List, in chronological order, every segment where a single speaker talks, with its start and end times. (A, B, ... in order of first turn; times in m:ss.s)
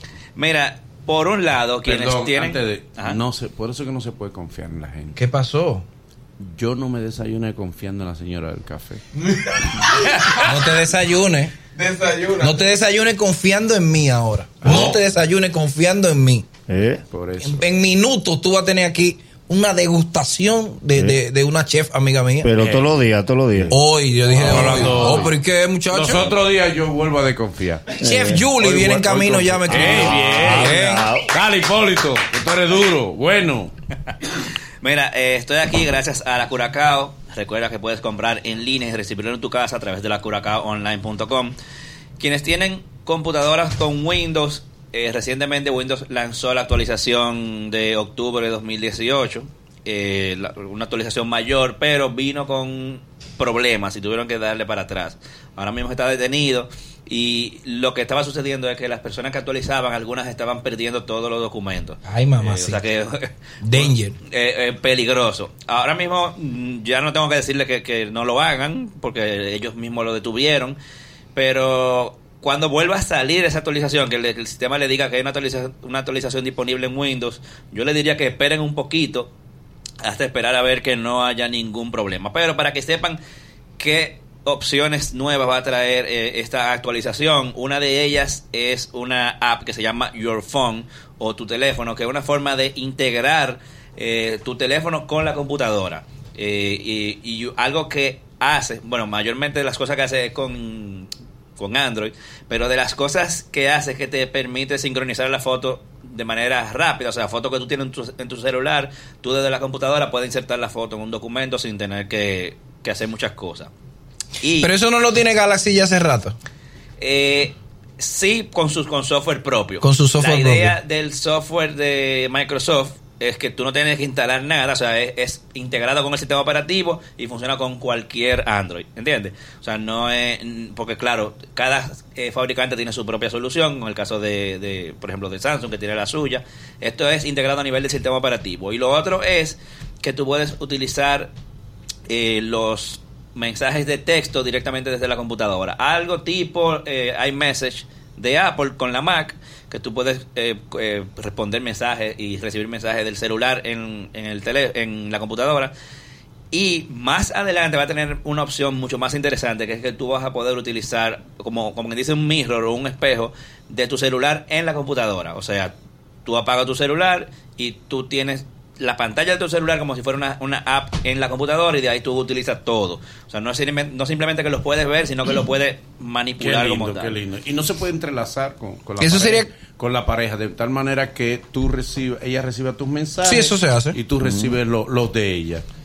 0:00.4-0:03.2 A
0:01.8-0:05.2 B
0:05.2-0:05.8 C
0:06.4-0:09.0 B
0:09.8-0:10.5 A
0:10.4-0:16.5 C
0:14.6-0:15.0 B
0:16.7-0:17.0 D
0:17.1-0:17.6 B
0:17.4-0:22.5 C
0:20.9-0:21.2 D
0:22.4-0:23.7 D
0:23.7-0:26.3 C
0:24.3-0:25.3 B
0:24.5-0:25.2 A
0:25.9-0:27.8 B
0:28.0-0:31.0 C
0:28.0-0:31.3 D
0:28.7-0:30.7 B
0:31.3-0:33.7 B
0:34.8-0:41.5 A
0:42.2-1:10.8 A
1:02.1-1:02.8 C
1:03.6-1:04.1 C
1:11.3-1:19.3 A
1:20.0-1:23.2 A
1:23.8-1:53.7 A
1:54.4-1:54.7 A
1:54.6-1:56.3 C
1:57.0-2:21.3 A
1:59.8-2:00.7 C
2:22.1-2:35.7 A
2:36.5-2:45.7 A
2:46.2-2:57.2 A
2:56.4-3:05.6 B
2:59.0-2:59.5 C
3:03.2-3:04.0 C
3:04.2-3:04.6 D